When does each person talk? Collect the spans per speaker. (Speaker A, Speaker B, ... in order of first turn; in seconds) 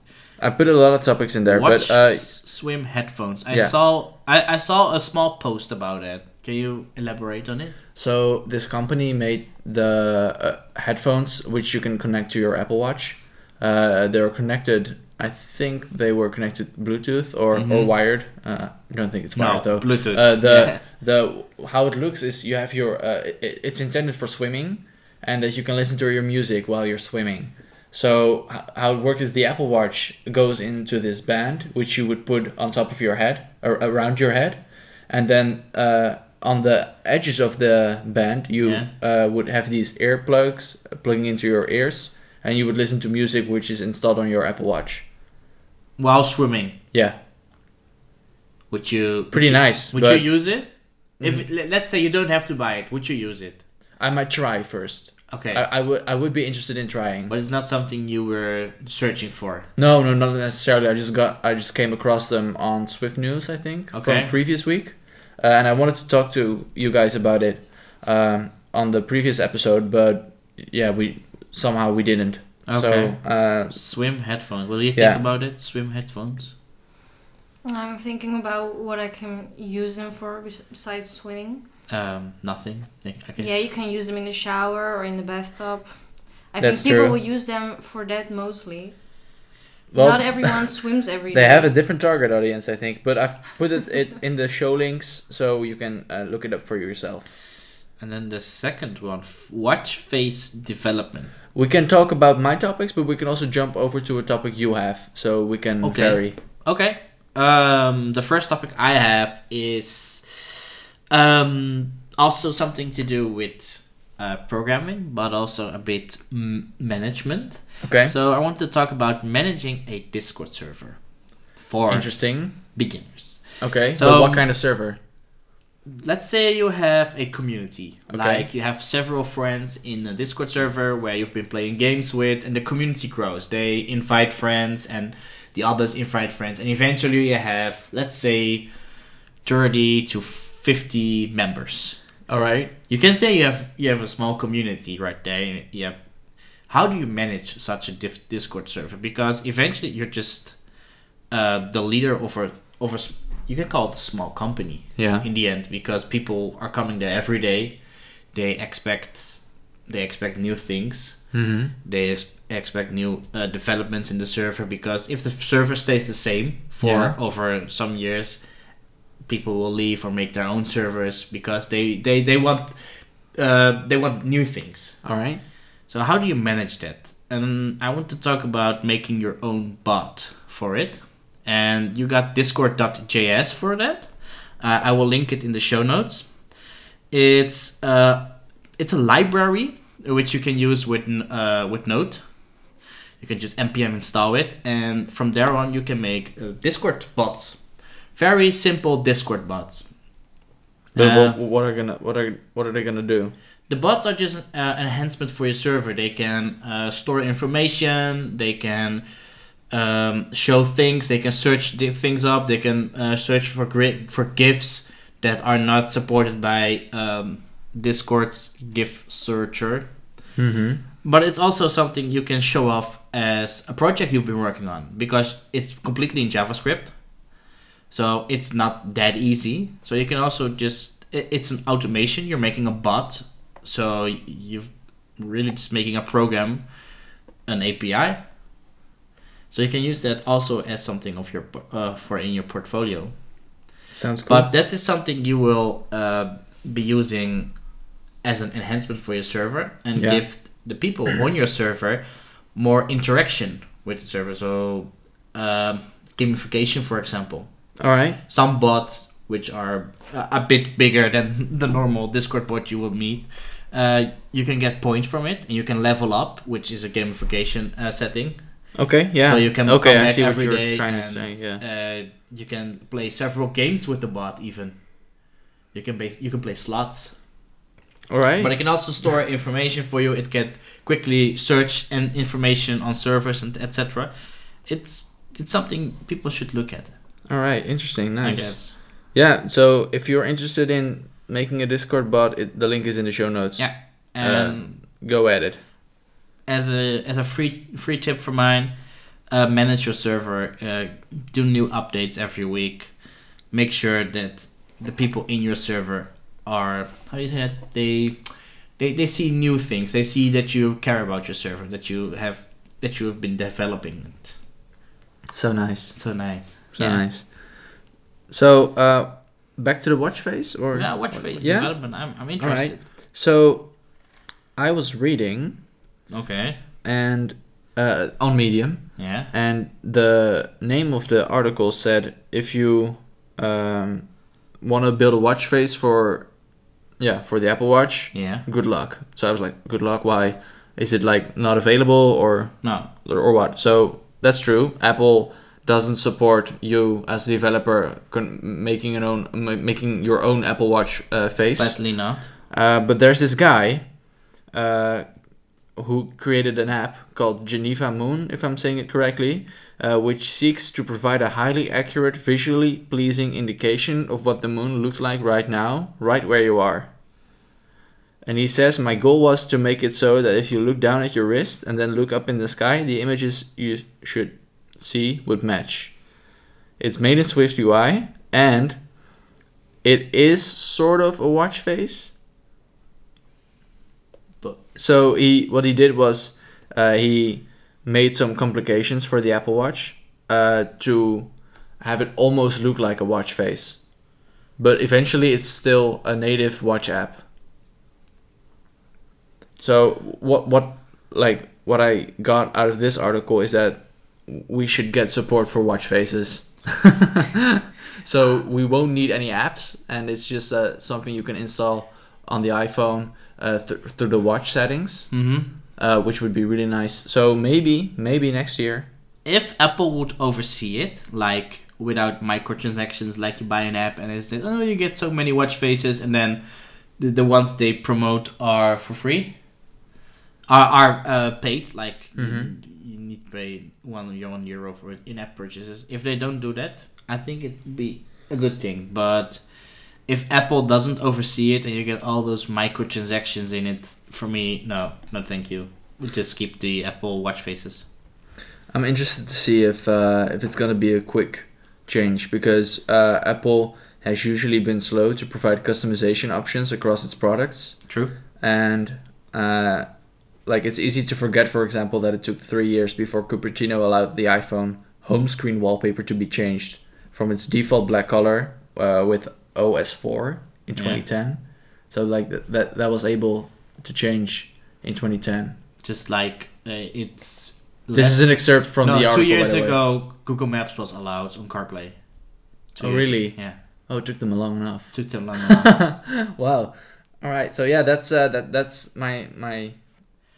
Speaker A: 0.4-2.2, 8.0-45.0, 49.3-50.3, 51.2-51.4, 54.0-57.3, 59.8-73.7, 74.9-75.2, 86.6-87.2, 89.9-97.3, 101.5-106.4, 117.8-118.1, 121.9-122.7, 123.6-125.0, 128.1-128.5, 142.3-142.7, 155.0-155.3, 161.3-161.7, 166.8-167.2, 175.0-175.4, 200.9-203.3, 220.4-220.8, 243.9-244.5, 249.9-250.2, 257.8-258.2, 268.7-271.6, 278.1-278.6, 287.3-295.6, 315.3-323.7, 324.6-325.6, 326.8-336.3, 337.0-352.0, 352.5-353.9, 354.5-355.1, 355.8-366.9, 368.2-376.0, 376.8-378.8, 379.8-382.1, 384.7-393.9, 394.6-397.2, 399.6-418.9, 432.1-432.5, 448.7-457.8, 458.4-459.9, 460.4-475.6, 477.9-479.8, 482.8-489.8
Speaker B: 1.4-7.8, 17.5-17.9, 19.4-20.8, 38.6-38.9, 46.0-46.8, 48.7-53.6, 55.3-55.6, 57.3-59.7, 63.9-64.3, 72.7-76.5, 81.9-83.6, 98.0-101.3, 105.8-124.4, 125.8-138.7, 139.4-142.0, 142.9-146.0, 146.6-150.6, 151.3-168.4, 169.2-175.1, 175.9-186.5, 187.1-192.6, 193.2-199.9, 200.9-201.4, 203.7-209.0, 209.7-219.9, 221.0-227.3, 227.9-236.7, 237.4-238.2, 239.5-243.1, 244.3-247.6, 248.2-277.2, 278.4-286.9, 288.2-288.7, 293.6-294.8, 296.4-303.0, 303.5-314.4, 315.9-317.0, 320.7-322.8, 326.1-326.6, 329.0-329.3, 338.1-338.4, 342.6-342.9, 351.4-352.3, 415.1-415.5, 419.2-426.4, 427.0-429.3, 430.5-439.4, 440.0-447.8, 457.9-458.1, 470.7-471.0, 475.8-482.0, 482.7-483.6, 484.9-485.8
Speaker C: 77.6-81.6, 83.4-89.0, 89.9-91.7